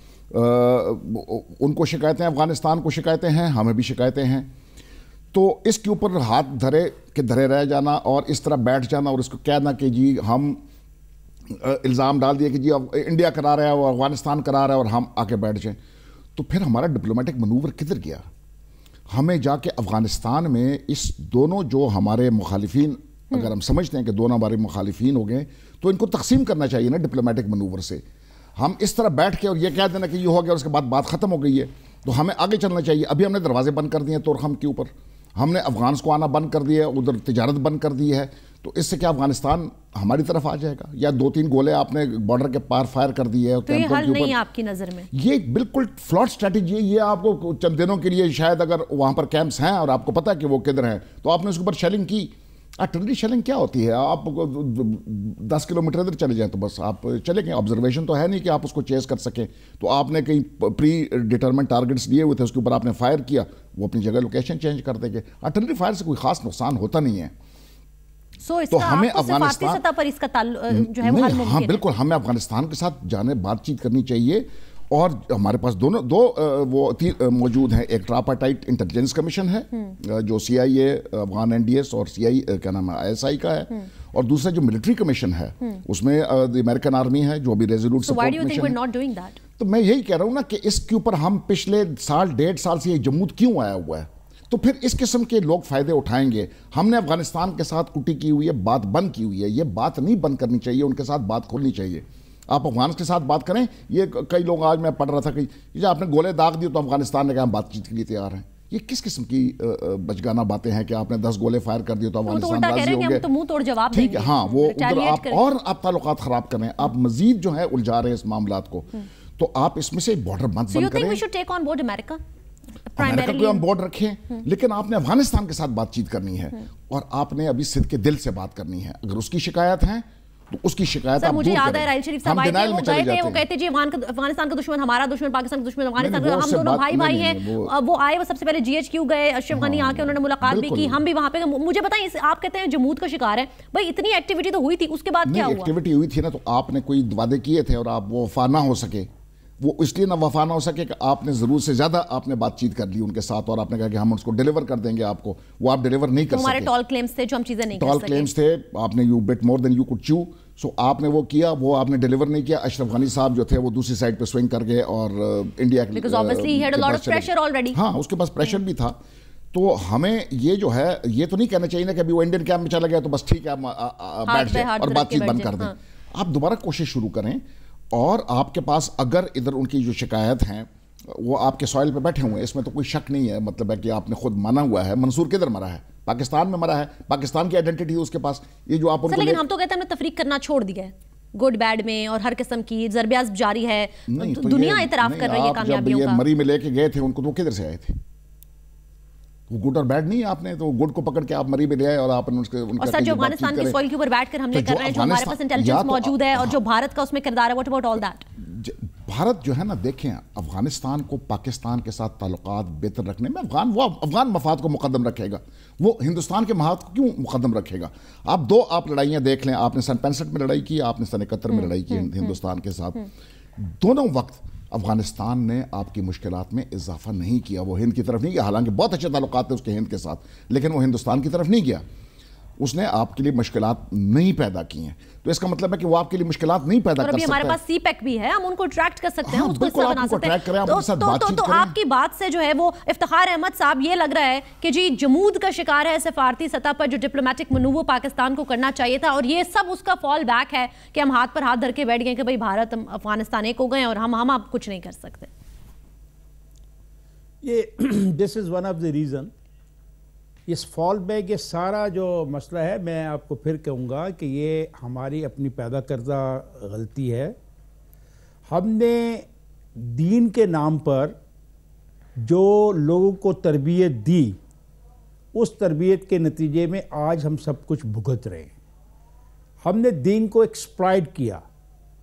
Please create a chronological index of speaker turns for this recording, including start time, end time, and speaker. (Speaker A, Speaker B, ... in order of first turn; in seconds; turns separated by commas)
Speaker A: 0.3-4.5, Speaker A: 5.3-10.6, Speaker A: 11.5-15.8, Speaker A: 16.4-18.2, Speaker A: 19.1-28.0, Speaker A: 28.6-44.4, Speaker B: 43.7-45.1, Speaker A: 45.1-67.3, Speaker B: 68.4-71.8, Speaker A: 68.7-69.8, Speaker A: 70.7-88.8, Speaker B: 88.0-89.4, Speaker A: 89.6-113.2, Speaker B: 112.3-115.4, Speaker A: 113.9-121.2, Speaker B: 120.7-122.2, Speaker B: 122.9-123.6, Speaker A: 123.0-133.4, Speaker B: 131.2-145.7, Speaker A: 136.0-137.7, Speaker A: 139.5-141.0, Speaker A: 145.2-149.1, Speaker A: 149.6-156.7, Speaker B: 156.3-158.3, Speaker A: 157.8-169.0, Speaker B: 165.9-167.8, Speaker A: 169.5-189.4, Speaker B: 174.2-175.7, Speaker B: 189.1-196.2, Speaker A: 194.1-198.0, Speaker A: 199.5-203.8, Speaker B: 202.8-208.2, Speaker A: 204.5-206.5, Speaker A: 208.4-231.8, Speaker A: 232.6-237.6, Speaker B: 237.0-255.3, Speaker A: 239.2-241.7, Speaker C: 257.4-259.3, Speaker C: 260.5-267.4, Speaker C: 268.5-271.2, Speaker C: 272.2-274.4, Speaker C: 275.3-278.5, Speaker C: 279.6-281.4